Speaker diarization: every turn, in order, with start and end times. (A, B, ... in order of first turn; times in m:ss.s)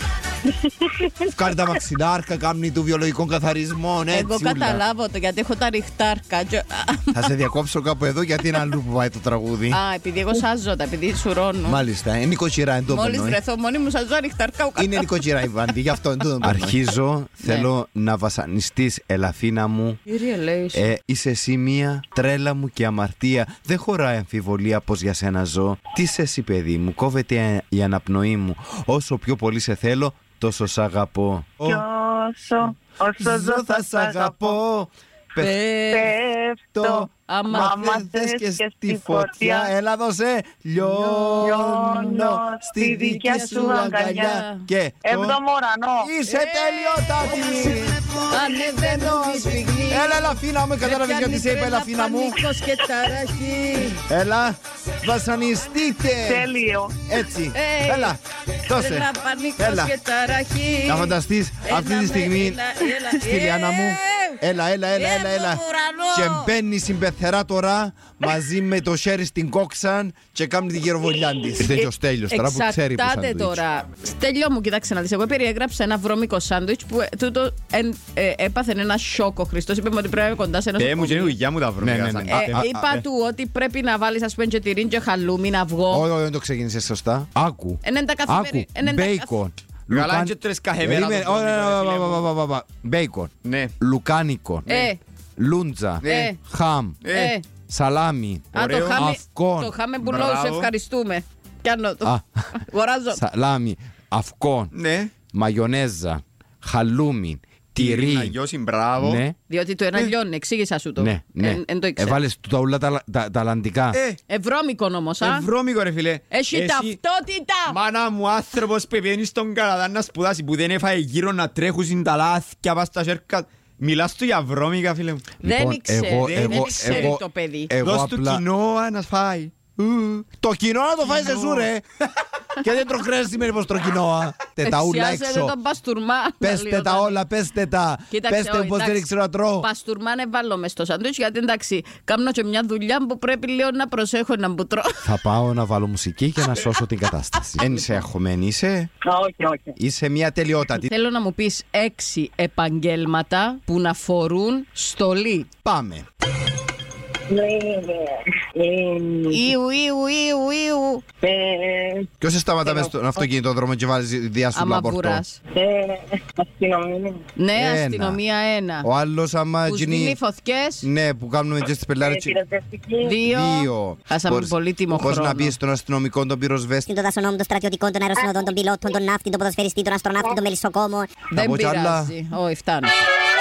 0:00.5-0:01.3 A
0:01.2-0:04.8 B
0:04.1-0:07.2 C
0:07.1-0:09.8 B
0:09.7-0:11.8 C
0:11.6-0:13.4 B
0:12.9-0:15.1 C
0:14.8-0:20.0 B
0:17.4-0:17.7 C
0:20.1-0:20.9 C
0:20.7-0:31.8 B
0:31.6-0:34.6 A
0:33.2-0:35.5 B
0:35.4-0:36.1 C
0:35.9-0:39.7 A
0:36.7-0:45.4 B
0:37.2-0:37.8 C
0:41.1-0:41.6 C
0:41.4-0:44.4 A
0:43.1-0:44.6 C
0:45.0-0:46.1 A
0:46.0-0:48.0 B
0:46.2-0:47.7 C
0:48.2-0:54.0 C
0:48.6-0:52.4 B
0:54.1-0:59.9 B
0:56.2-0:57.0 A
0:57.5-0:58.2 C
0:58.7-1:06.5 C
1:00.8-1:13.6 B
1:11.6-1:21.4 C
1:20.8-1:23.0 D
1:21.8-1:22.8 B
1:22.3-1:26.1 C
1:25.9-1:34.7 B
1:27.8-1:29.4 C
1:29.9-1:32.3 D
1:33.4-1:33.7 D
1:34.6-1:34.9 D
1:34.7-1:35.0 C
1:35.4-1:37.0 B
1:36.0-1:36.4 D
1:36.0-1:36.4 C
1:37.0-1:37.4 D
1:37.1-1:37.4 C
1:37.7-1:39.7 B
1:38.5-1:39.1 D
1:38.5-1:43.2 C
1:40.0-1:40.7 D
1:42.0-1:42.5 B
1:43.1-1:48.4 B
1:44.7-1:45.1 D
1:47.8-1:49.2 D
1:49.0-1:49.3 B
1:49.5-1:52.2 C
1:51.0-1:54.0 B
1:53.9-1:54.2 D
1:54.3-1:55.5 C
1:55.2-1:57.0 D
1:56.3-1:57.8 C
1:57.7-2:05.4 D
2:05.4-2:07.7 C
2:05.4-2:08.4 B
2:06.2-2:07.2 D
2:07.8-2:10.2 D
2:10.4-2:11.8 B
2:11.1-2:11.6 C
2:12.6-2:15.5 B
2:14.6-2:17.2 C
2:16.4-2:19.7 B
2:18.1-2:19.1 C
2:19.6-2:25.0 C
2:25.0-2:28.9 B
2:27.5-2:28.0 C
2:29.0-2:29.8 A
2:29.8-2:30.9 B
2:30.9-2:35.5 C
2:35.6-2:36.0 B
2:37.3-2:39.4 A
2:39.3-2:41.0 C
2:41.2-2:42.1 A
2:42.2-2:45.2 B
2:42.6-2:42.9 A
2:44.5-2:45.4 C
2:45.5-2:47.2 A
2:47.4-2:48.9 C
2:47.5-2:48.2 B
2:48.8-2:50.2 B
2:49.6-2:50.9 C
2:50.8-2:52.4 B
2:52.0-2:53.2 A
2:53.0-2:55.6 C
2:53.2-2:56.9 B
2:56.9-3:01.1 E
2:58.2-2:59.0 A
3:01.3-3:03.0 C
3:01.3-3:02.1 B